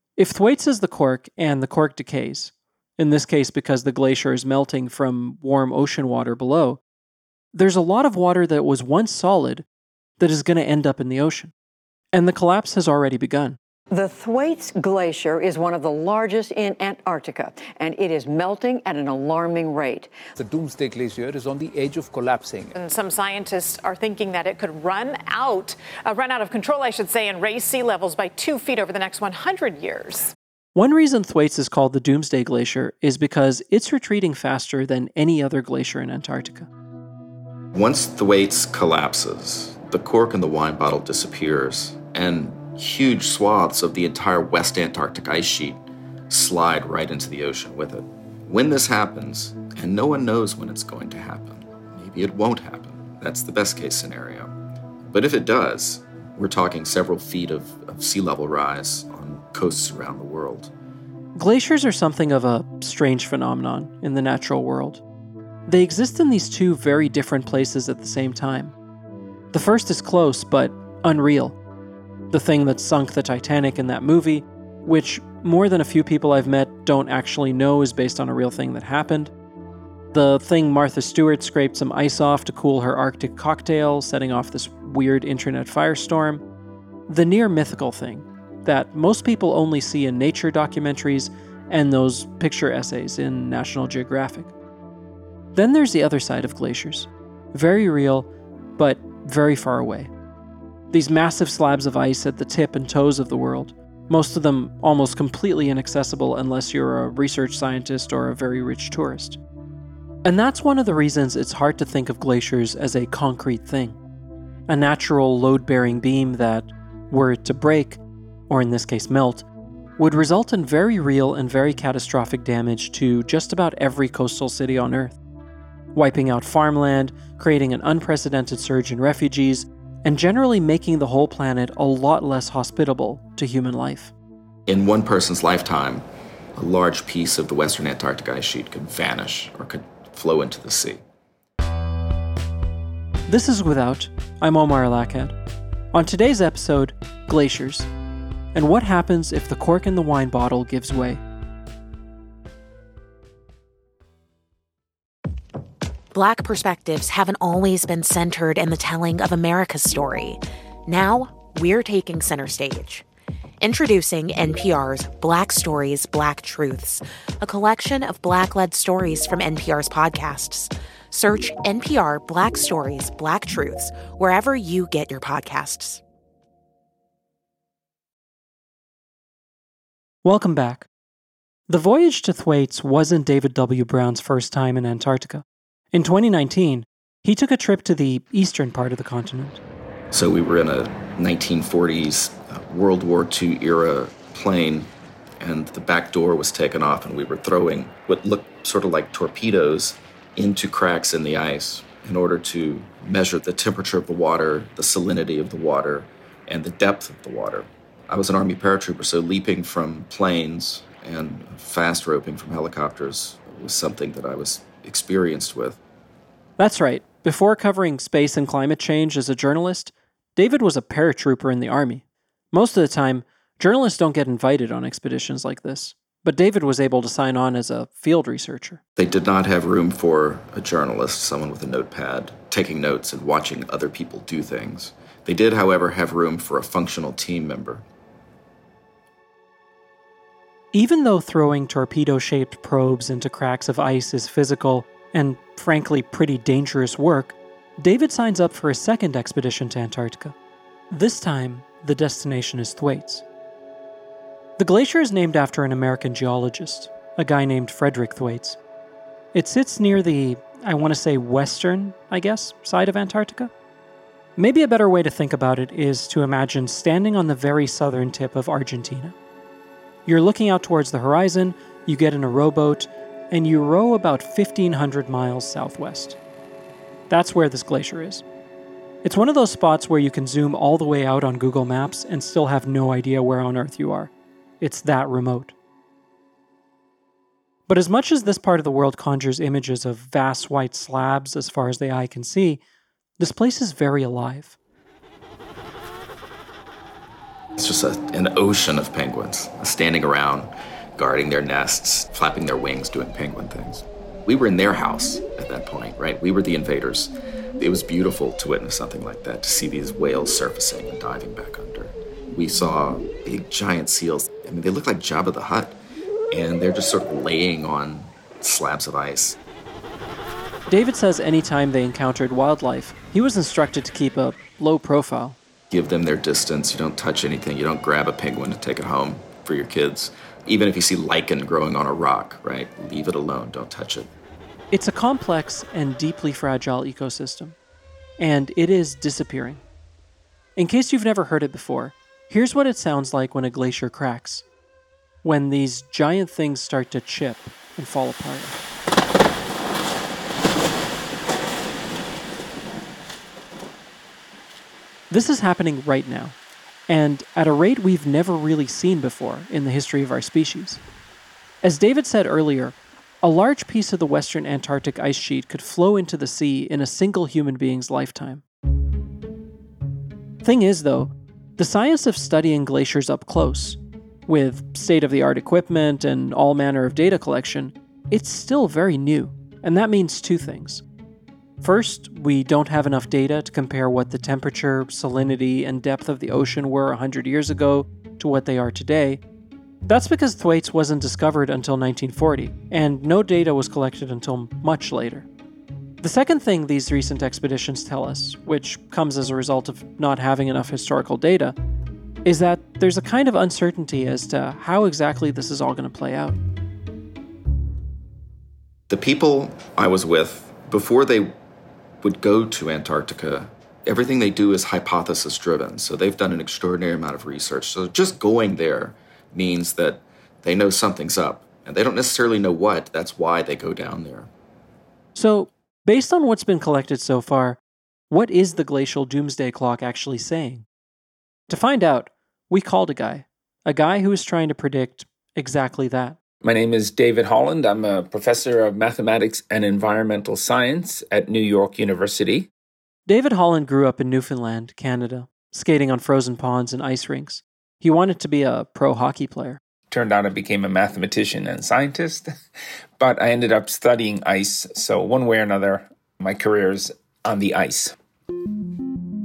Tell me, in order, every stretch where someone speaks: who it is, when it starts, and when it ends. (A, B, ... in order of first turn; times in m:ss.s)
0:00.2-0:06.8 A
0:07.5-0:09.6 A
0:10.2-0:11.5 A
0:12.1-0:13.6 A
0:13.9-0:20.2 B
0:20.4-0:22.7 C
0:22.7-0:30.3 D
0:30.7-0:36.7 A
0:37.7-0:54.5 E
0:55.0-1:00.7 E
1:01.3-1:05.0 A
1:05.7-1:08.7 A
1:09.5-1:11.6 A
1:12.3-1:19.3 A
1:20.1-1:26.4 A
1:27.1-1:34.5 A
1:35.5-1:40.1 A
1:40.9-1:49.4 A
1:50.2-1:54.0 A
1:54.7-1:59.5 A
2:00.0-2:05.2 A
2:05.9-2:14.1 A
2:14.7-2:21.0 E
2:23.3-2:25.3 A
2:25.9-2:27.9 A
2:28.5-2:31.2 A
2:36.1-2:43.0 F
2:43.6-2:56.0 F
3:00.2-3:00.9 A
3:01.7-3:09.6 A
3:10.1-3:35.8 E
3:36.6-3:48.8 A
3:49.0-3:57.8 E
4:00.7-4:10.3 A
4:10.9-4:13.2 A
4:14.6-4:18.6 A
4:19.3-4:23.5 A
4:24.4-4:29.1 A
4:30.0-4:36.2 A
4:37.1-4:38.2 A
4:39.0-4:45.5 A
4:47.7-4:52.6 A
4:53.2-4:54.6 A
4:57.6-5:15.8 E
5:16.3-5:19.4 E
5:20.7-5:25.4 A
5:25.7-5:34.1 E
5:34.7-5:37.6 A
5:38.2-5:39.6 A
5:40.6-5:44.4 A
5:45.2-5:48.6 A
5:55.1-5:56.4 A
5:56.9-6:00.8 A
6:01.6-6:08.4 A
6:10.4-6:20.8 A
6:21.6-6:29.2 A
6:29.8-6:35.3 A
6:36.0-6:41.5 A
6:42.2-6:46.4 A
6:48.9-6:51.4 E
6:52.0-7:04.3 E
7:05.1-7:07.6 A
7:08.1-7:10.6 A
7:11.5-7:16.2 A
7:16.4-7:22.5 G
7:23.1-7:29.6 A
7:29.9-7:32.3 G
7:33.0-7:37.9 G